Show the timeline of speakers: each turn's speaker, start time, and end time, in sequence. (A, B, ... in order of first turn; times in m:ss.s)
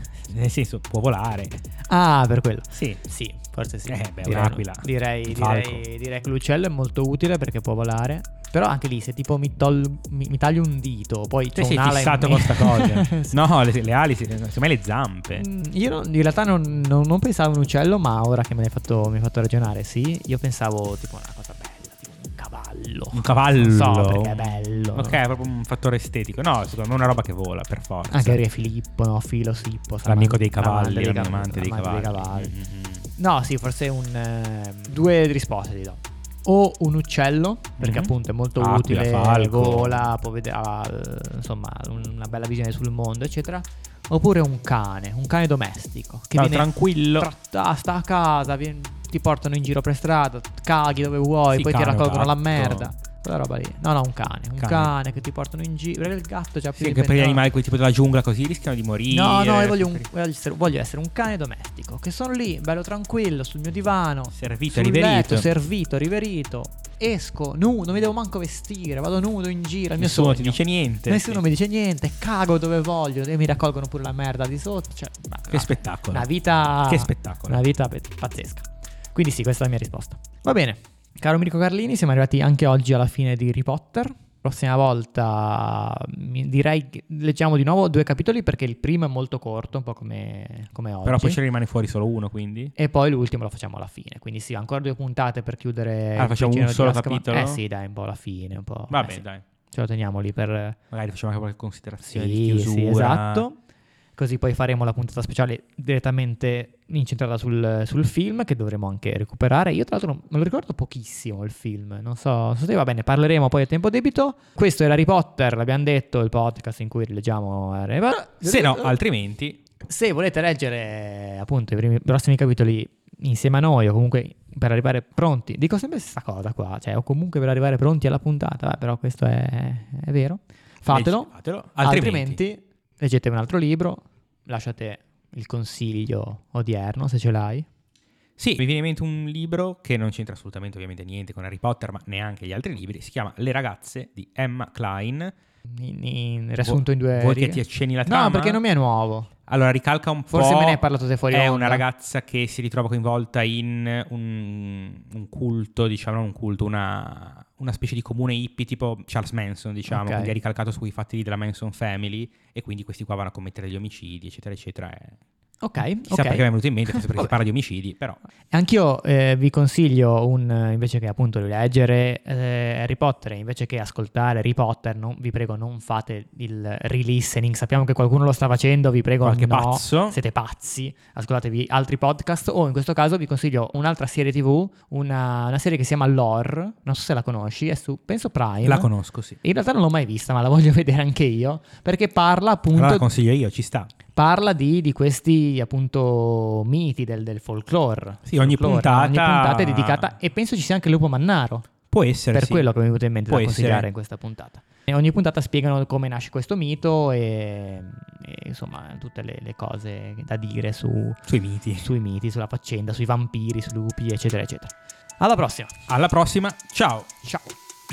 0:00.3-0:01.6 A
0:01.9-0:13.4 B
0:02.7-0:03.0 A
0:03.8-0:05.8 A
0:11.6-0:15.4 A
0:15.4-0:25.2 B
0:23.1-0:28.4 A
0:28.1-0:32.5 B
0:30.0-0:33.1 A
0:33.2-0:57.4 B
0:37.8-0:40.1 A
0:46.3-0:47.3 A
0:51.5-0:52.9 A
0:54.6-0:54.9 A
0:56.8-1:00.1 A
0:59.1-1:31.4 B
1:04.3-1:05.5 A
1:10.0-1:11.4 A
1:15.5-1:16.3 A
1:16.8-1:17.6 A
1:31.0-1:32.7 A
1:32.8-1:40.8 B
1:36.2-1:37.6 A
1:38.9-1:39.4 A
1:40.9-1:43.4 A
1:42.0-1:43.6 B
1:44.2-1:59.0 B
1:58.4-1:59.6 A
1:59.8-2:17.6 B
2:10.9-2:12.4 A
2:18.4-2:25.3 A
2:25.6-2:29.3 B
2:26.6-2:28.6 A
2:29.5-2:45.2 A
2:30.3-2:31.8 B
2:39.9-2:40.3 B
2:45.6-2:47.3 B
2:46.1-2:48.2 A
2:48.5-3:08.9 B
2:59.2-3:00.2 A
3:08.6-3:09.4 A
3:09.4-3:13.1 B
3:12.7-3:13.9 A
3:14.1-3:21.7 B
3:18.2-3:20.1 A
3:21.9-3:22.7 A
3:22.3-3:31.2 B
3:23.2-3:23.8 A
3:31.3-3:31.9 A
3:31.8-3:35.7 B
3:35.9-3:37.1 A
3:37.2-3:37.5 B